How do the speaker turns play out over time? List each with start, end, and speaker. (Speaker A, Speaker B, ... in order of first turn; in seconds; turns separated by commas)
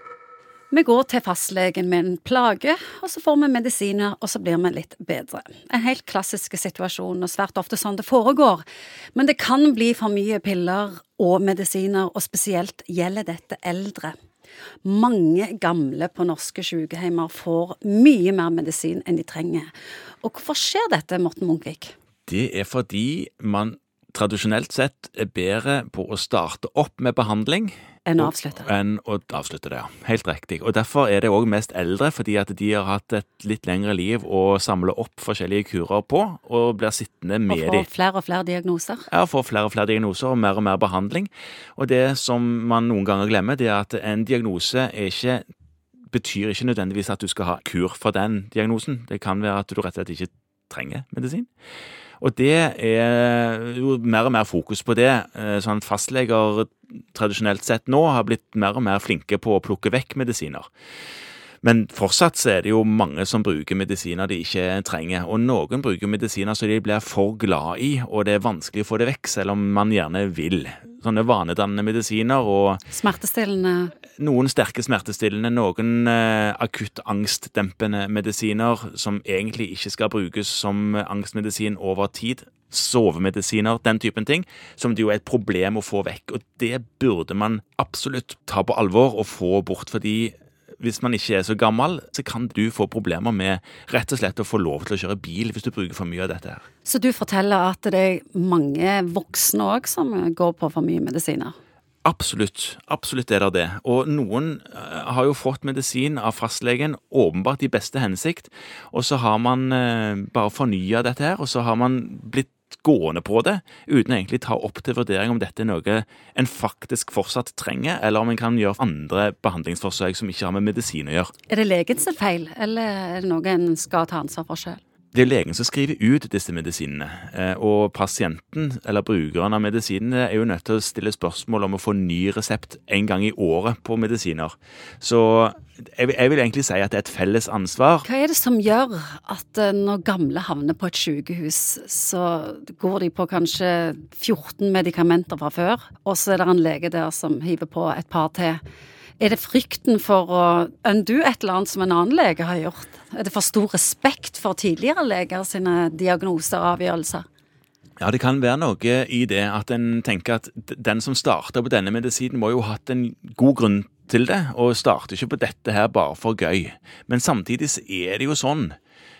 Speaker A: 0.7-8.6, Speaker A: 9.2-14.1, Speaker A: 14.8-19.7, Speaker A: 20.2-21.9, Speaker B: 22.3-37.9, Speaker A: 28.1-28.7, Speaker A: 37.5-39.1, Speaker B: 39.1-45.4, Speaker B: 46.1-51.5, Speaker B: 52.2-60.7, Speaker B: 61.6-72.8, Speaker A: 72.9-74.0, Speaker B: 74.2-96.6, Speaker A: 96.8-101.5, Speaker B: 102.0-121.3, Speaker A: 121.5-124.8, Speaker B: 125.1-138.1, Speaker A: 138.1-148.6, Speaker A: 149.2-157.3, Speaker B: 158.0-168.8